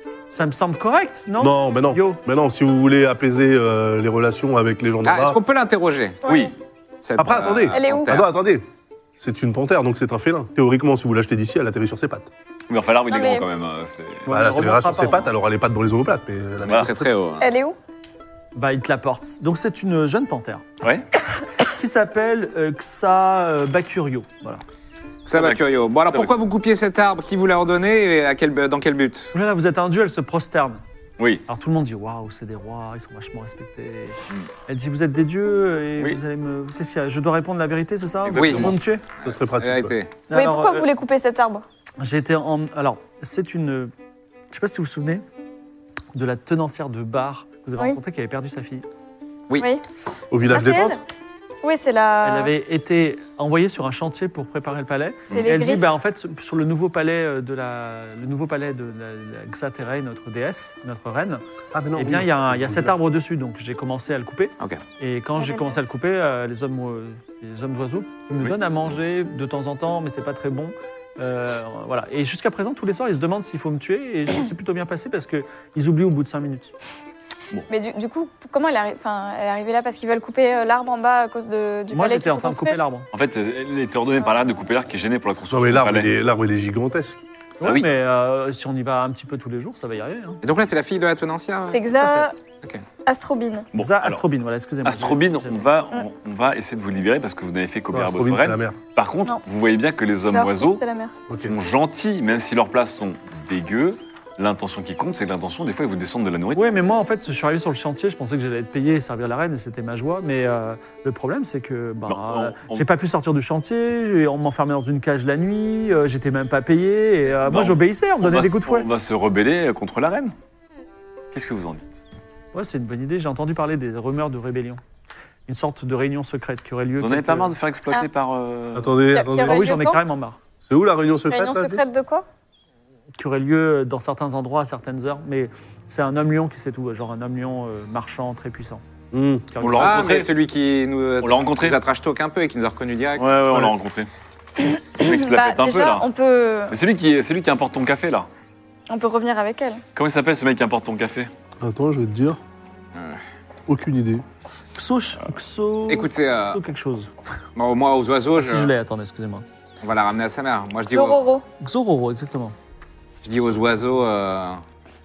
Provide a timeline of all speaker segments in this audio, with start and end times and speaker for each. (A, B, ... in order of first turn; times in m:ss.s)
0:00.3-0:02.2 A
0:01.4-0:05.4 B
0:05.0-0:06.2 C
0:06.2-0:06.5 D
0:06.3-0:06.5 E
0:07.0-0:08.3 C
0:07.2-0:08.7 B
0:07.7-0:08.2 D
0:09.2-0:12.3 B
0:12.7-0:14.3 E
0:13.1-0:13.5 D
0:14.3-0:15.3 A
0:14.3-0:16.9 B
0:16.6-0:16.9 E
0:16.7-0:17.5 C
0:17.4-0:17.8 D
0:18.6-0:20.6 A
0:21.6-0:24.6 A
0:25.3-0:26.4 E
0:25.3-0:29.3 C
0:29.3-0:30.8 A
0:31.2-0:31.4 E
0:31.5-0:39.0 A
0:38.3-0:38.7 E
0:38.3-0:38.7 C
0:38.5-0:40.0 B
0:39.6-0:40.2 C
0:40.3-0:40.9 A
0:40.3-0:41.6 D
0:42.0-0:43.9 A
0:44.5-0:45.2 A
0:46.1-0:48.8 A
0:49.6-0:49.8 D
0:50.3-0:51.0 B
0:50.5-0:51.0 D
0:51.6-0:52.5 D
0:52.2-1:01.4 A
0:55.3-0:55.9 D
1:01.7-1:03.0 B
1:02.0-1:16.7 A
1:05.4-1:05.8 D
1:17.7-1:22.8 D
1:21.9-1:23.1 A
1:23.1-1:26.1 E
1:25.5-1:27.2 B
1:27.6-1:30.4 A
1:27.6-1:27.9 E
1:30.4-1:31.9 C
1:31.7-1:32.4 D
1:32.0-1:32.3 A
1:33.0-1:33.7 D
1:33.7-1:34.2 E
1:33.8-1:35.6 A
1:34.8-1:40.8 E
1:37.9-1:38.8 B
1:40.3-1:41.1 D
1:41.3-1:41.6 B
1:41.4-1:46.8 E
1:46.6-1:58.9 A
1:52.1-1:52.8 E
1:57.5-2:00.4 E
2:01.3-2:02.0 E
2:02.5-2:04.8 A
2:05.5-2:07.5 A
2:07.0-2:09.0 E
2:08.8-2:09.7 B
2:09.1-2:10.0 D
2:09.4-2:10.4 A
2:10.7-2:11.8 B
2:11.3-2:12.3 D
2:13.2-2:18.8 A
2:19.1-2:19.5 B
2:19.5-2:20.0 A
2:19.6-2:20.3 E
2:19.8-2:23.3 C
2:21.2-2:21.8 E
2:23.2-2:24.1 E
2:24.6-2:26.8 D
2:25.0-2:26.1 E
2:26.7-2:28.3 E
2:28.9-2:29.8 D
2:30.0-2:31.3 E
2:31.6-2:32.4 B
2:32.9-2:33.2 C
2:33.7-2:34.2 B
2:34.8-2:37.1 A
2:35.9-2:36.6 C
2:37.6-2:38.7 C
2:38.4-2:39.4 A
2:39.8-2:41.2 C
2:40.9-2:41.5 D
2:41.6-2:42.6 A
2:43.2-2:44.6 C